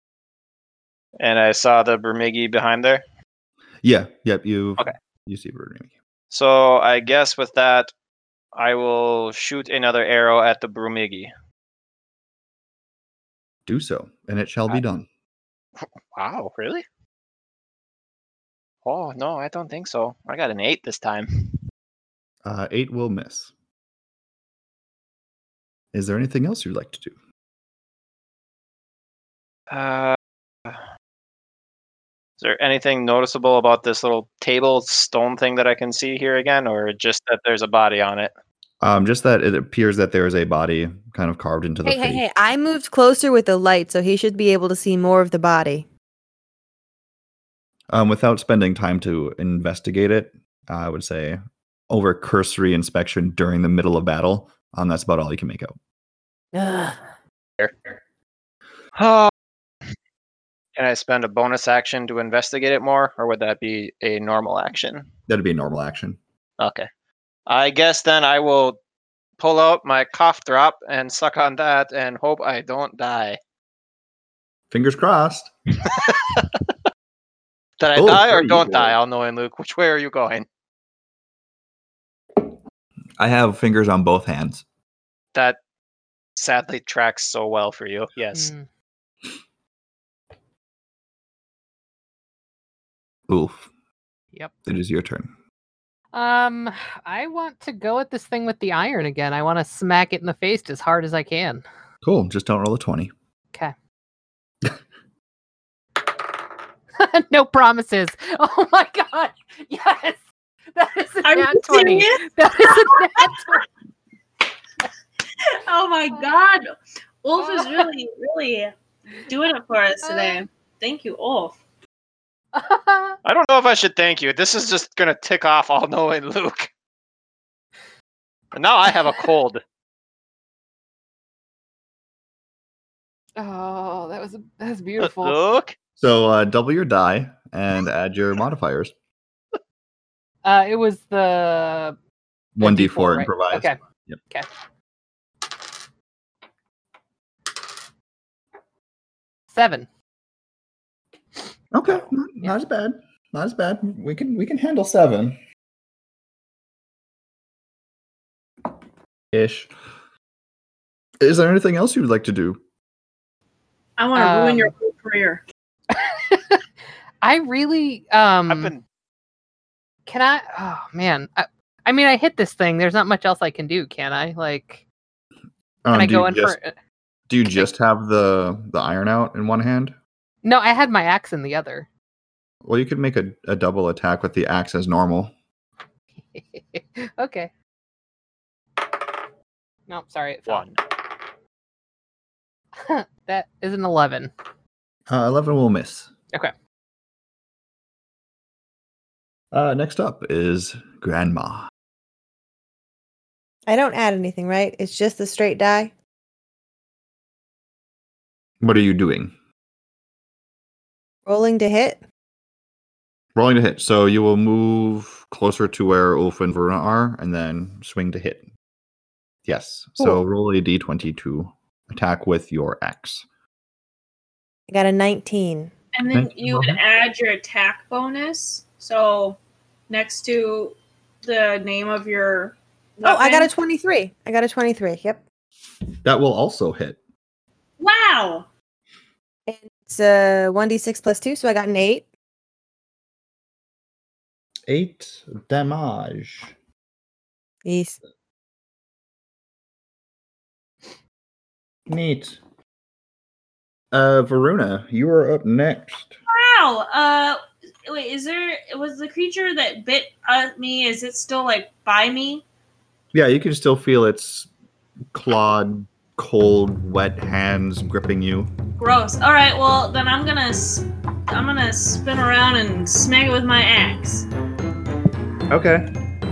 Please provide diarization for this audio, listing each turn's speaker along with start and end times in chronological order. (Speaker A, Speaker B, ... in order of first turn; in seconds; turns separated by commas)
Speaker A: 1.2-3.0, Speaker B: 3.8-5.9, Speaker A: 6.3-7.9, Speaker A: 8.5-11.3, Speaker B: 13.7-15.1, Speaker A: 16.1-16.8, Speaker A: 18.8-21.6, Speaker B: 22.4-23.5, Speaker B: 25.9-27.1, Speaker A: 29.7-30.8, Speaker A: 32.4-38.3, Speaker B: 38.8-42.2, Speaker C: 41.8-45.9, Speaker B: 47.9-55.8, Speaker C: 56.5-57.0, Speaker A: 59.0-59.3, Speaker A: 60.8-65.1, Speaker B: 65.3-66.2, Speaker A: 66.6-66.9, Speaker A: 67.5-68.8, Speaker A: 69.4-73.4, Speaker B: 74.7-75.5, Speaker A: 75.8-76.6, Speaker A: 77.8-80.5, Speaker B: 77.9-79.0, Speaker B: 83.2-84.6, Speaker A: 86.3-88.5, Speaker D: 88.3-88.7, Speaker B: 93.3-93.7, Speaker B: 94.7-95.3, Speaker D: 96.1-101.6, Speaker B: 102.0-103.1, Speaker D: 107.0-113.6, Speaker E: 111.2-113.6, Speaker E: 115.5-116.7, Speaker E: 117.2-121.6, Speaker D: 117.4-117.9, Speaker D: 120.0-120.4, Speaker D: 122.5-123.2, Speaker A: 123.2-126.7, Speaker A: 128.5-129.6, Speaker D: 133.4-135.4, Speaker A: 135.0-135.7, Speaker B: 136.0-138.9, Speaker D: 140.4-142.0, Speaker B: 142.5-144.2, Speaker D: 142.6-143.8, Speaker D: 149.5-149.9, Speaker B: 151.7-155.4, Speaker B: 159.3-159.7, Speaker B: 161.2-162.6, Speaker E: 164.0-165.4, Speaker D: 164.1-164.7, Speaker D: 165.9-166.6, Speaker D: 167.2-168.7, Speaker A: 168.5-168.8, Speaker D: 170.1-174.8, Speaker B: 175.8-176.6, Speaker D: 175.9-176.7, Speaker B: 177.3-179.9, Speaker D: 180.4-181.9, Speaker B: 182.6-185.3, Speaker D: 186.2-187.5, Speaker D: 189.9-190.7, Speaker A: 190.5-190.8, Speaker D: 192.8-194.3, Speaker B: 195.1-196.1, Speaker B: 199.5-201.7, Speaker C: 203.7-205.9, Speaker B: 208.6-209.3, Speaker C: 211.2-212.0, Speaker B: 213.3-218.4, Speaker B: 219.4-223.2, Speaker C: 224.7-225.7, Speaker E: 225.9-233.5, Speaker B: 226.1-226.8, Speaker C: 233.0-235.2, Speaker B: 236.0-237.0, Speaker E: 237.8-238.5, Speaker C: 239.5-242.1, Speaker B: 244.7-246.5, Speaker C: 247.6-248.0, Speaker B: 251.9-252.4, Speaker B: 253.9-256.2, Speaker E: 256.3-262.4, Speaker B: 263.1-264.5, Speaker B: 265.1-268.5, Speaker E: 268.8-274.3, Speaker B: 275.5-275.9